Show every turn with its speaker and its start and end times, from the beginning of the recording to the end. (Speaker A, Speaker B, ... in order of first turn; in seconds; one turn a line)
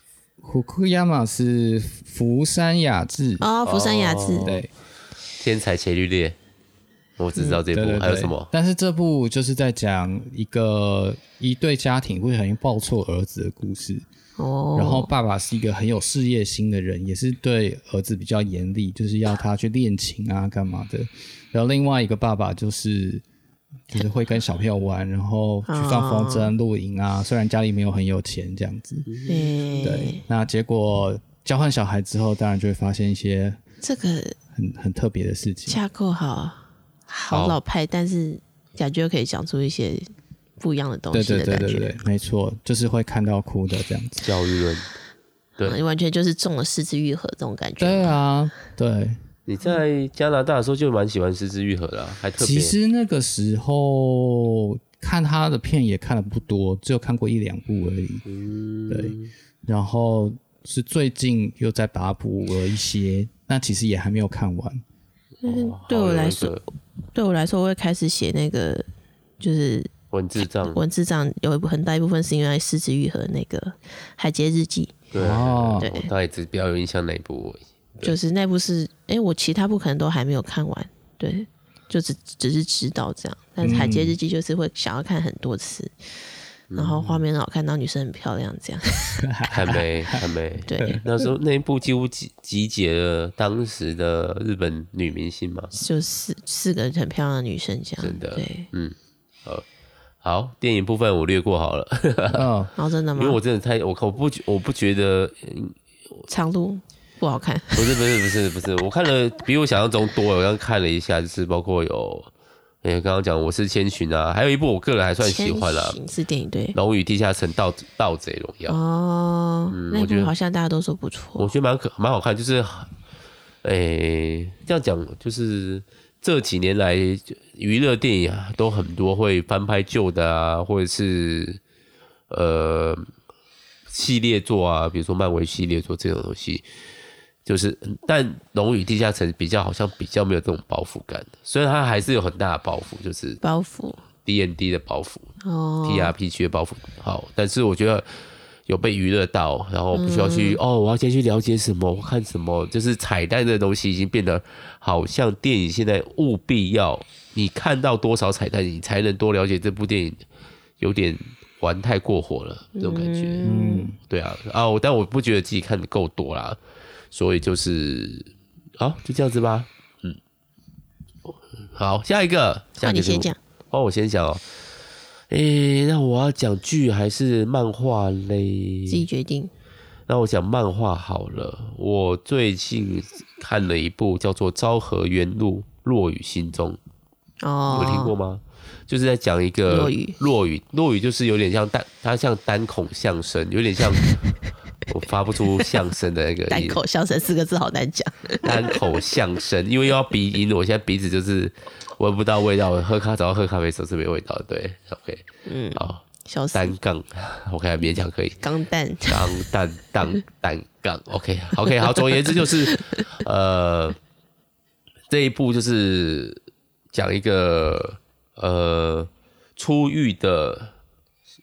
Speaker A: 0.4-3.5
Speaker B: 3.4-4.5
Speaker C: 3.6-4.6
Speaker A: 4.4-4.7
Speaker C: 5.4-6.4
Speaker C: 7.2-8.5
Speaker B: 7.4-7.6
Speaker A: 7.7-14.1
Speaker B: 14.4-15.1
Speaker A: 14.8-23.2
Speaker A: 23.9-29.1
Speaker B: 25.7-26.5
Speaker C: 29.1-29.8
Speaker B: 29.3-30.2
Speaker A: 29.8-33.6
Speaker B: 33.8-34.4
Speaker A: 34.5-35.8
Speaker B: 35.7-42.0
Speaker C: 37.3-37.6
Speaker A: 41.1-44.3
Speaker C: 44.2-44.9
Speaker B: 45.6-48.2
Speaker A: 47.8-49.2
Speaker C: 49.5-52.7
Speaker A: 52.4-58.2
Speaker C: 58.2-59.3
Speaker A: 58.9-64.8
Speaker C: 65.4-66.6
Speaker B: 65.4-66.6
Speaker B: 67.1-68.9
Speaker B: 69.4-75.0
Speaker C: 70.1-70.8
Speaker C: 75.1-78.2
Speaker A: 75.2-75.9
Speaker B: 75.8-76.1
Speaker B: 78.0-85.9
Speaker A: 83.6-84.2
Speaker C: 86.7-87.2
Speaker B: 86.8-89.2
Speaker A: 89.2-90.2
Speaker C: 89.5-95.7
Speaker B: 90.7-91.0
Speaker B: 95.7-98.7
Speaker C: 98.0-99.7
Speaker C: 100.2-102.5
Speaker A: 102.3-102.7
Speaker B: 102.8-103.4
Speaker C: 103.2-105.8
Speaker B: 106.3-108.0
Speaker C: 107.7-112.3
Speaker C: 112.8-116.0
Speaker B: 115.2-116.8
Speaker C: 116.7-118.8
Speaker B: 118.7-121.5
Speaker C: 119.7-120.3
Speaker C: 121.4-122.9
Speaker C: 123.6-131.6
Speaker C: 132.3-133.1
Speaker C: 133.9-136.7
Speaker C: 137.4-143.4
Speaker B: 143.4-144.0
Speaker C: 144.2-145.3
Speaker B: 145.4-146.1
Speaker C: 145.8-148.1
Speaker C: 148.7-160.2
Speaker B: 149.9-150.6
Speaker C: 160.8-163.5
Speaker B: 162.8-163.9
Speaker A: 163.4-164.0
Speaker C: 164.1-166.6
Speaker C: 167.1-170.2
Speaker C: 171.3-174.4
Speaker B: 172.8-173.4
Speaker C: 175.3-179.1
Speaker B: 178.9-179.5
Speaker C: 180.1-186.8
Speaker B: 187.4-188.1
Speaker C: 187.7-194.1
Speaker B: 189.7-190.2
Speaker C: 194.9-196.8
Speaker B: 196.5-198.8
Speaker C: 198.4-208.4
Speaker B: 205.5-206.8
Speaker B: 208.4-209.4
Speaker C: 209.1-214.0
Speaker B: 212.3-213.0
Speaker C: 215.1-216.4
Speaker C: 216.9-220.7